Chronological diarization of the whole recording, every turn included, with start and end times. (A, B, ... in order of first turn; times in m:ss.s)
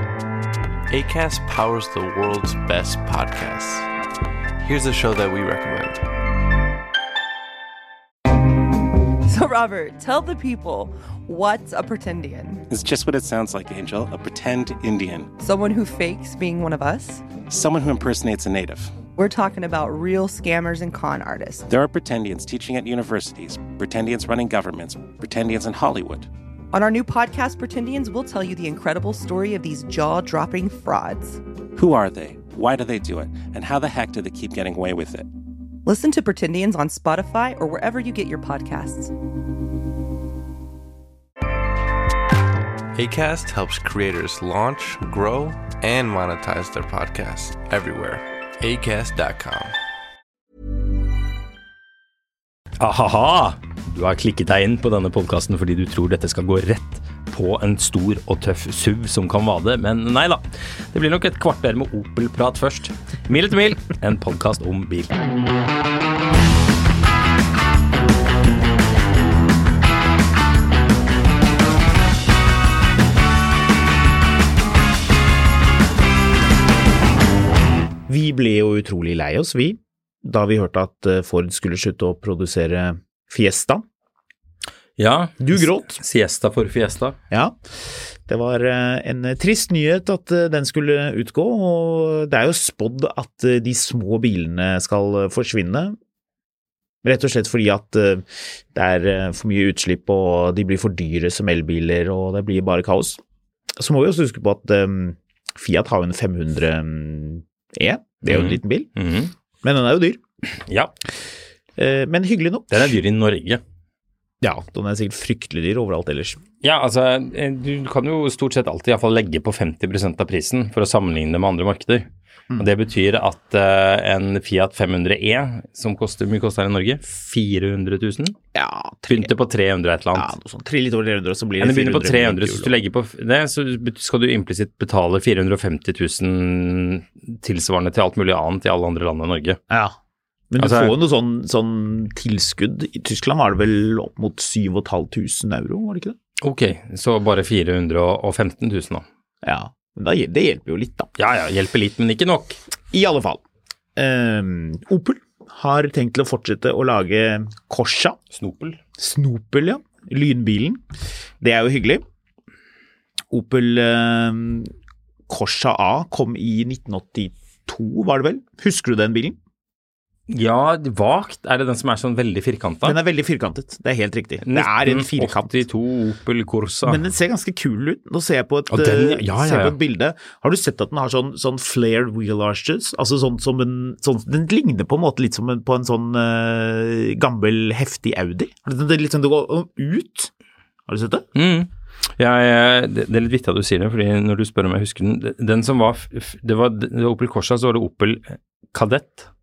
0:00.9-0:03.9 A
0:04.6-0:06.0 A
0:09.3-0:12.6 B
0:12.7-0:15.3 C
0:15.4-0:17.2 B
0:17.5-0:19.0 C
0:19.2-0:21.6 B
0:21.7-0:26.3 C
0:26.7-0:31.4 B
0:31.8-0:35.3 C
0:35.9-0:39.1 B
0:43.0-0:49.7 A
0:52.8-1:05.2 D
1:18.1-1:23.8 E
1:25.0-1:27.2 D
1:25.4-1:26.0 E
1:27.3-1:36.0 E
1:37.0-1:43.2 E
1:43.8-1:48.9 E
1:48.2-1:49.3 D
1:49.6-1:50.2 E
1:50.6-1:50.9 D
1:51.8-1:53.0 E
1:52.7-1:53.6 D
1:54.4-1:56.4 E
1:56.6-2:02.1 D
2:02.6-2:08.4 D
2:08.5-2:09.3 E
2:09.1-2:10.3 D
2:10.2-2:12.7 E
2:11.6-2:19.6 D
2:19.7-2:20.0 E
2:20.5-2:26.2 E
2:20.6-2:21.0 D
2:26.4-2:29.0 D
2:29.4-2:31.1 E
2:31.2-2:32.6 D
2:32.9-2:33.4 E
2:34.0-2:38.2 E
2:38.3-2:38.8 D
2:39.0-2:40.8 E
2:41.4-2:42.0 E
2:43.3-2:44.7 E
2:45.3-2:49.4 E
2:50.3-2:53.0 D
2:52.8-2:55.6 E
2:54.4-2:57.0 D
2:56.9-3:10.3 E
2:58.7-2:59.8 D
3:10.9-3:11.3 E
3:11.4-3:19.3 D